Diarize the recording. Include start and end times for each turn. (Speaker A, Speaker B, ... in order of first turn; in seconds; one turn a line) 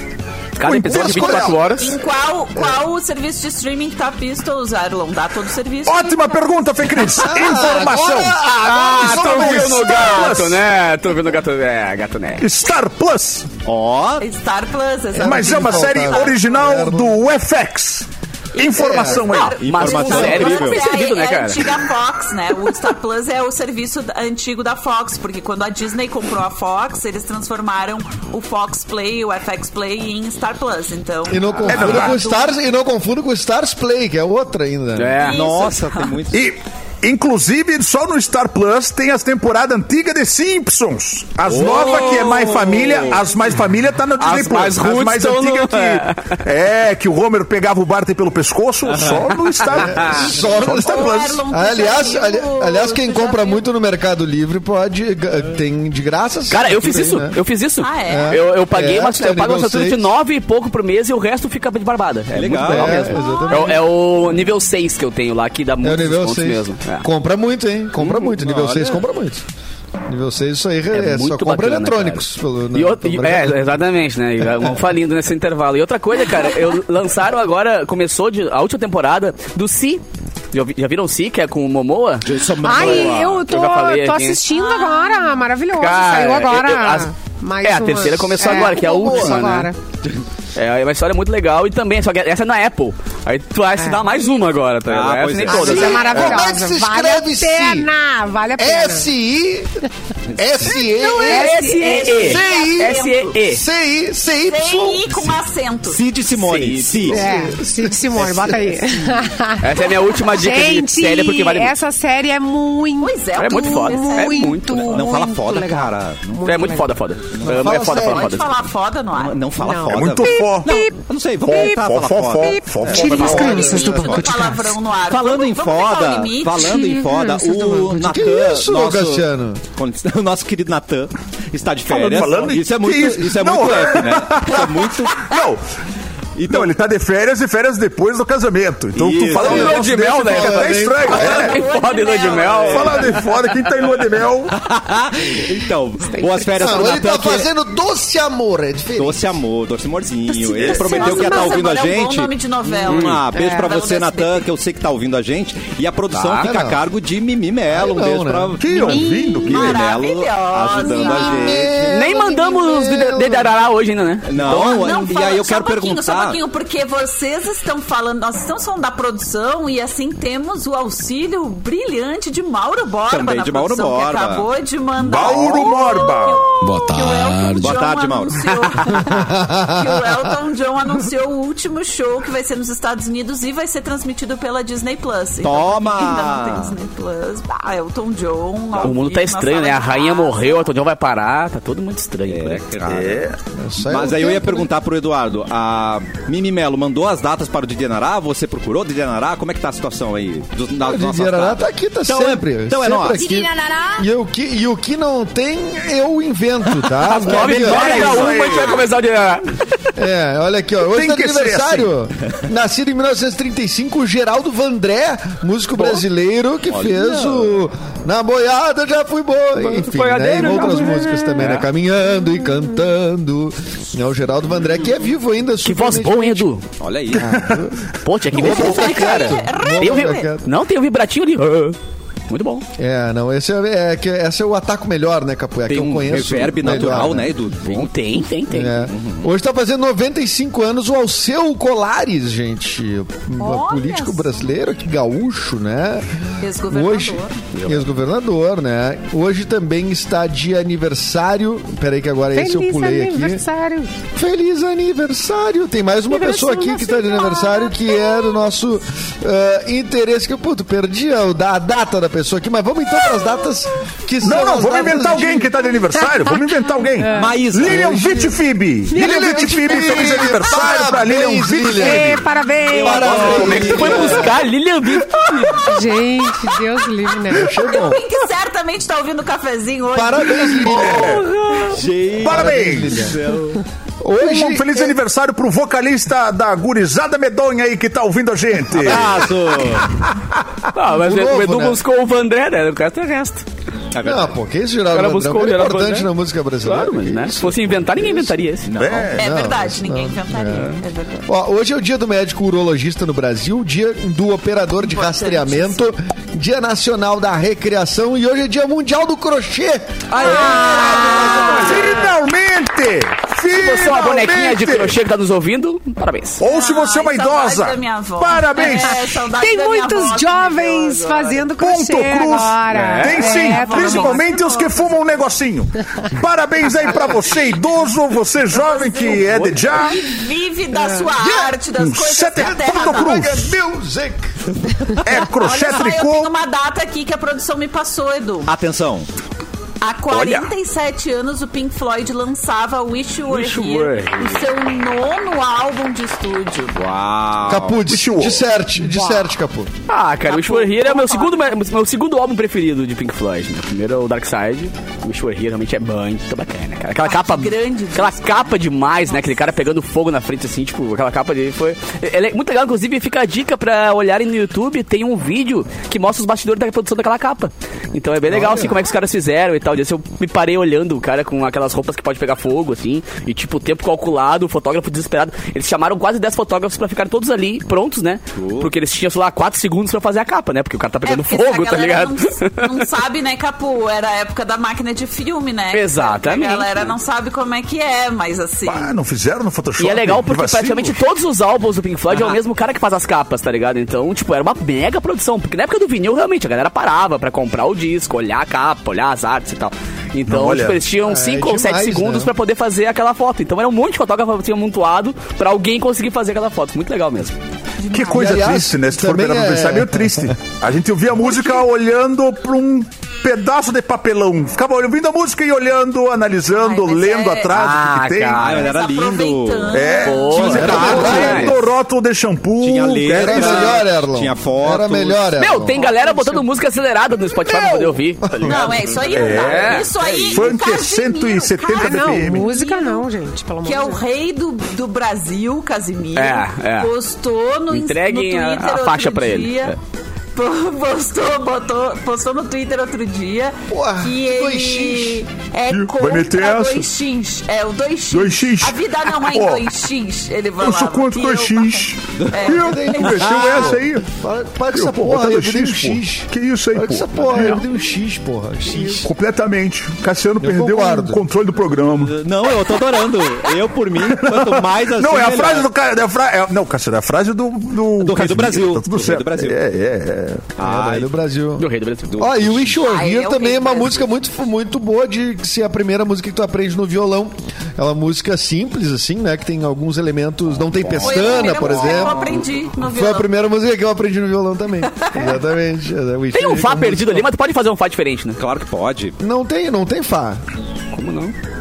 Speaker A: 0.6-1.9
Speaker B: 0.6-1.7
Speaker C: 0.9-1.5
Speaker D: 1.8-6.5
Speaker B: 5.9-10.6
Speaker C: 7.1-10.2
Speaker A: 8.5-12.4
Speaker B: 12.4-13.5
Speaker E: 13.6-14.2
Speaker D: 14.2-16.5
Speaker C: 15.2-17.2
Speaker B: 15.2-19.6
Speaker D: 18.6-32.5
Speaker C: 18.7-19.3
Speaker E: 19.6-20.8
Speaker A: 19.6-21.6
Speaker C: 31.3-35.2
Speaker B: 31.7-32.2
Speaker A: 35.0-35.4
Speaker D: 35.2-36.1
Speaker E: 35.3-36.5
Speaker B: 36.3-51.4
Speaker E: 41.4-43.2
Speaker A: 41.6-43.1
Speaker A: 44.2-46.4
Speaker E: 48.9-49.2
Speaker C: 49.8-57.4
Speaker D: 50.1-53.6
Speaker A: 56.5-67.0
Speaker D: 57.8-58.4
Speaker C: 58.1-60.1
Speaker E: 62.3-63.1
Speaker C: 62.6-63.8
Speaker F: 63.1-63.7
Speaker C: 65.8-69.4
Speaker E: 68.0-69.0
Speaker C: 70.1-73.7
Speaker A: 70.9-84.4
Speaker E: 82.2-83.4
Speaker F: 82.6-89.8
Speaker D: 84.5-85.1
Speaker A: 85.7-87.1
Speaker A: 87.6-89.7
Speaker C: 88.5-89.5
Speaker A: 90.5-96.2
Speaker F: 93.8-94.0
Speaker E: 94.8-96.4
Speaker C: 95.5-97.9
Speaker F: 95.5-99.1
Speaker C: 98.6-99.8
Speaker C: 100.4-101.6
Speaker A: 101.2-103.6
Speaker F: 101.2-102.2
Speaker D: 101.5-103.4
Speaker C: 102.2-105.2
Speaker D: 104.5-106.0
Speaker E: 105.9-107.5
Speaker A: 106.4-107.1
Speaker F: 107.1-116.9
Speaker C: 107.2-108.6
Speaker E: 108.2-108.6
Speaker A: 109.6-111.8
Speaker D: 113.0-114.6
Speaker A: 113.4-115.0
Speaker E: 114.7-116.7
Speaker A: 116.4-118.5
Speaker E: 117.3-118.0
Speaker C: 117.5-118.3
Speaker D: 117.6-119.5
Speaker E: 119.2-124.3
Speaker F: 119.6-120.9
Speaker B: 119.8-120.7
Speaker B: 121.4-123.5
Speaker F: 121.5-121.7
Speaker F: 122.4-124.7
Speaker A: 123.0-123.8
Speaker D: 123.1-127.0
Speaker C: 123.2-123.8
Speaker E: 125.1-135.3
Speaker F: 126.6-128.2
Speaker C: 127.9-129.6
Speaker B: 131.9-135.6
Speaker E: 136.4-136.7
Speaker B: 136.4-141.6
Speaker E: 138.9-139.8
Speaker A: 139.3-143.5
Speaker C: 139.4-141.2
Speaker D: 141.1-143.0
Speaker B: 142.7-144.5
Speaker E: 144.5-147.5
Speaker F: 146.0-146.8
Speaker C: 146.5-149.4
Speaker E: 148.9-152.3
Speaker F: 150.3-151.6
Speaker D: 150.6-154.5
Speaker E: 152.8-161.9
Speaker A: 152.9-153.2
Speaker F: 153.3-153.6
Speaker A: 156.1-156.5
Speaker C: 156.3-156.8
Speaker C: 157.7-158.6
Speaker B: 158.6-159.9
Speaker F: 158.7-159.5
Speaker D: 159.5-161.7
Speaker C: 160.9-163.6
Speaker A: 161.9-164.8
Speaker E: 164.2-166.4
Speaker D: 164.4-190.7
Speaker E: 173.1-174.5
Speaker B: 175.0-176.5
Speaker E: 176.8-178.4
Speaker C: 179.1-180.2
Speaker E: 185.4-186.8
Speaker A: 188.8-192.6
Speaker E: 192.2-193.3
Speaker B: 192.8-193.4
Speaker C: 193.5-194.7
Speaker E: 193.8-203.3
Speaker C: 200.8-208.2
Speaker A: 207.1-209.4
Speaker E: 207.1-208.7
Speaker B: 207.4-208.8
Speaker C: 209.9-226.5
Speaker B: 210.9-211.9
Speaker A: 215.8-216.0
Speaker E: 216.7-217.5
Speaker A: 219.6-221.7
Speaker A: 225.6-226.6
Speaker E: 226.8-227.4
Speaker C: 227.1-227.8
Speaker B: 227.3-227.7
Speaker A: 228.0-231.8
Speaker C: 228.3-230.5
Speaker D: 228.3-230.3
Speaker A: 232.3-232.6
Speaker C: 232.8-237.3
Speaker E: 235.7-237.9
Speaker A: 237.6-238.8
Speaker C: 238.5-246.1
Speaker E: 238.8-239.3
Speaker D: 243.4-244.4
Speaker D: 246.4-247.4
Speaker C: 246.7-253.4
Speaker F: 252.3-253.9
Speaker C: 254.1-265.5
Speaker F: 256.1-257.8
Speaker B: 264.2-272.1
Speaker F: 267.0-267.3
Speaker E: 267.1-268.2
Speaker F: 268.9-270.0
Speaker C: 268.9-274.4
Speaker F: 271.7-273.9
Speaker E: 272.7-274.4
Speaker A: 273.1-275.7
Speaker F: 275.6-277.6
Speaker D: 275.7-276.5
Speaker C: 277.3-278.0
Speaker D: 277.4-281.0
Speaker C: 279.9-281.3
Speaker B: 280.6-281.3
Speaker E: 281.6-283.6
Speaker B: 282.2-283.1
Speaker C: 282.2-283.1
Speaker C: 284.0-285.0
Speaker B: 284.2-289.3
Speaker E: 288.7-290.0
Speaker A: 290.7-293.4
Speaker C: 290.9-291.8
Speaker E: 293.9-294.4
Speaker C: 294.0-298.4
Speaker A: 294.9-296.1
Speaker A: 296.6-298.7
Speaker E: 298.6-299.1
Speaker B: 298.8-299.2
Speaker C: 299.1-300.7
Speaker D: 299.1-301.2
Speaker C: 301.2-311.6
Speaker D: 304.8-305.8
Speaker D: 310.1-312.0
Speaker F: 310.2-311.0
Speaker B: 310.3-315.0
Speaker A: 310.4-311.8
Speaker A: 313.5-316.4
Speaker B: 316.4-319.2
Speaker D: 316.4-321.5
Speaker F: 319.3-324.2
Speaker B: 321.6-330.0
Speaker A: 322.7-323.6
Speaker D: 323.2-324.9
Speaker D: 328.5-333.4
Speaker A: 329.2-329.8
Speaker C: 331.1-331.6
Speaker B: 331.8-333.5
Speaker C: 332.4-334.3
Speaker B: 335.0-336.3
Speaker D: 335.2-338.5
Speaker E: 338.4-339.1
Speaker D: 339.8-346.8
Speaker B: 340.1-340.5
Speaker A: 343.3-344.4
Speaker E: 346.7-347.8
Speaker C: 347.4-349.7
Speaker B: 347.9-348.4
Speaker A: 349.9-382.8
Speaker D: 350.2-351.5
Speaker D: 357.0-359.5
Speaker C: 368.3-368.6
Speaker E: 378.4-378.7
Speaker D: 381.0-388.9
Speaker A: 385.7-386.9
Speaker B: 388.6-391.0
Speaker A: 389.8-407.4
Speaker B: 400.3-400.8
Speaker C: 401.0-402.3
Speaker D: 407.8-408.3
Speaker B: 407.9-418.4
Speaker C: 408.0-410.3
Speaker D: 416.5-417.6
Speaker A: 417.5-418.7
Speaker E: 418.4-421.6
Speaker D: 418.4-420.9
Speaker B: 419.7-423.8
Speaker A: 420.0-421.6
Speaker C: 420.5-421.6
Speaker E: 422.6-425.4
Speaker C: 423.1-425.8
Speaker A: 425.4-430.4
Speaker C: 428.2-428.6
Speaker D: 428.4-433.1
Speaker B: 429.1-432.6
Speaker E: 430.0-430.4
Speaker F: 431.8-434.0
Speaker D: 433.6-439.8
Speaker A: 436.1-436.9
Speaker A: 437.7-439.7
Speaker D: 440.3-453.4
Speaker C: 443.7-445.2
Speaker B: 445.7-446.9
Speaker B: 448.1-449.6
Speaker B: 450.6-454.1
Speaker E: 452.2-452.4
Speaker C: 452.5-459.1
Speaker E: 453.3-453.7
Speaker B: 454.7-457.6
Speaker B: 459.0-462.2
Speaker C: 460.4-461.2
Speaker E: 461.8-465.7
Speaker B: 464.0-470.5
Speaker E: 468.0-469.6
Speaker E: 470.6-471.1
Speaker C: 470.6-471.6
Speaker A: 471.6-472.4
Speaker E: 472.1-472.7
Speaker C: 472.2-487.3
Speaker D: 472.8-474.1
Speaker E: 480.8-482.4
Speaker D: 481.0-483.3
Speaker A: 486.3-488.4
Speaker E: 488.4-489.1
Speaker C: 489.2-490.4
Speaker A: 490.9-491.3